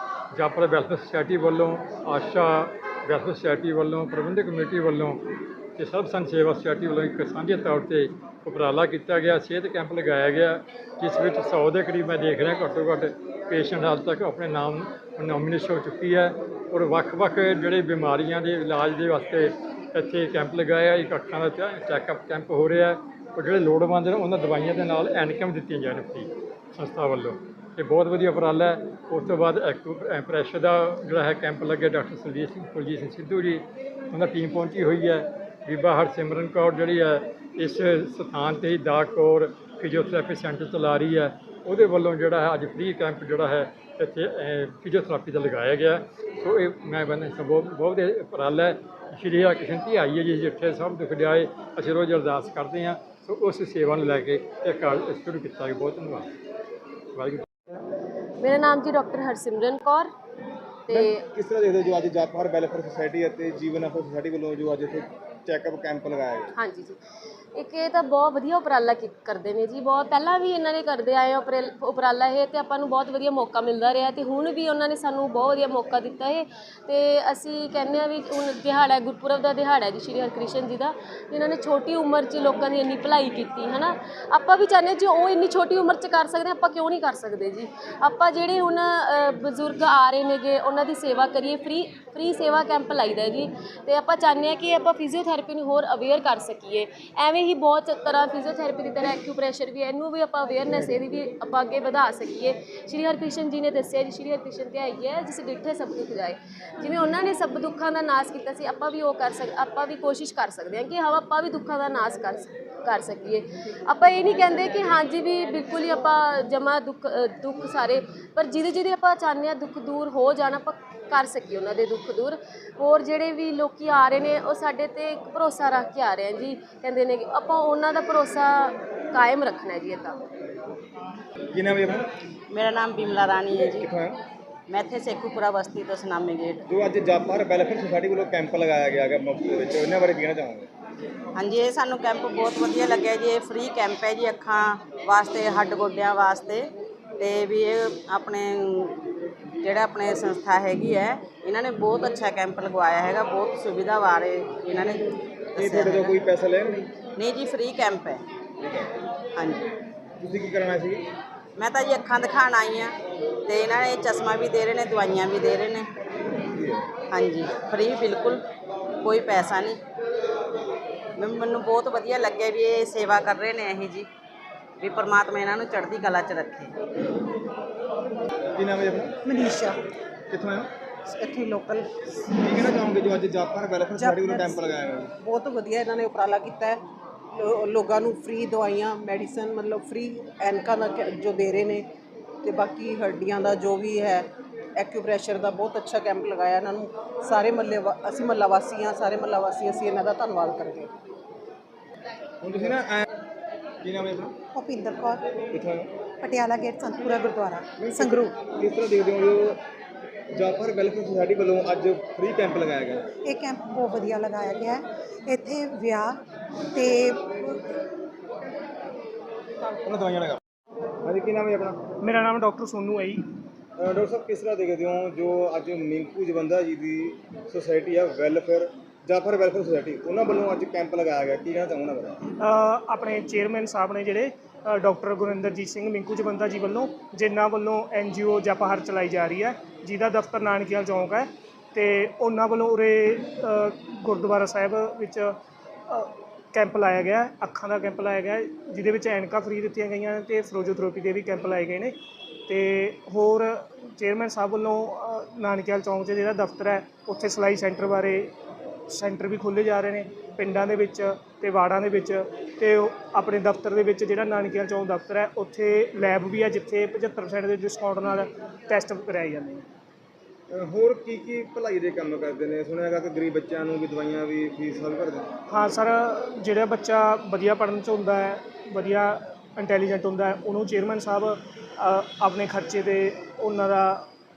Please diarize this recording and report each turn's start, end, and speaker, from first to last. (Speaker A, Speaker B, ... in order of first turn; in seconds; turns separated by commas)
Speaker A: 0.3-5.2, Speaker A: 5.8-56.3, Speaker A: 57.1-57.4, Speaker B: 58.4-60.1, Speaker B: 60.9-61.2, Speaker C: 60.9-66.5, Speaker B: 66.5-67.0, Speaker B: 67.5-130.2, Speaker C: 131.5-132.1, Speaker D: 132.5-133.9, Speaker C: 133.5-134.2, Speaker D: 134.7-136.6, Speaker C: 136.7-140.7, Speaker D: 141.3-149.0, Speaker D: 149.6-155.0, Speaker D: 155.6-156.2, Speaker C: 155.6-156.8, Speaker D: 157.2-158.2, Speaker C: 158.6-158.9, Speaker D: 159.3-159.7, Speaker C: 160.2-161.1, Speaker D: 161.6-162.9, Speaker D: 163.4-165.9, Speaker C: 166.5-166.9, Speaker D: 167.1-168.4, Speaker D: 169.0-169.8, Speaker D: 171.2-174.1, Speaker D: 174.8-176.7, Speaker C: 178.6-179.1, Speaker E: 179.2-179.8, Speaker C: 180.3-180.7, Speaker E: 181.1-181.8, Speaker C: 182.4-185.1, Speaker E: 183.9-184.6, Speaker E: 185.3-186.7, Speaker E: 187.9-191.8, Speaker E: 192.4-194.2, Speaker E: 194.8-196.7, Speaker E: 197.2-200.8, Speaker C: 202.4-203.1, Speaker C: 203.8-204.3, Speaker E: 204.6-205.2, Speaker C: 205.5-205.9, Speaker E: 206.2-208.3, Speaker C: 207.8-209.6, Speaker C: 210.3-213.0, Speaker E: 213.3-216.1, Speaker E: 216.7-217.5, Speaker C: 219.8-220.4, Speaker C: 221.0-221.8, Speaker F: 222.0-223.2, Speaker C: 223.8-232.2, Speaker F: 232.4-245.3, Speaker F: 245.9-251.9, Speaker F: 252.5-258.3, Speaker F: 258.9-269.6, Speaker C: 270.5-275.3, Speaker F: 275.5-284.1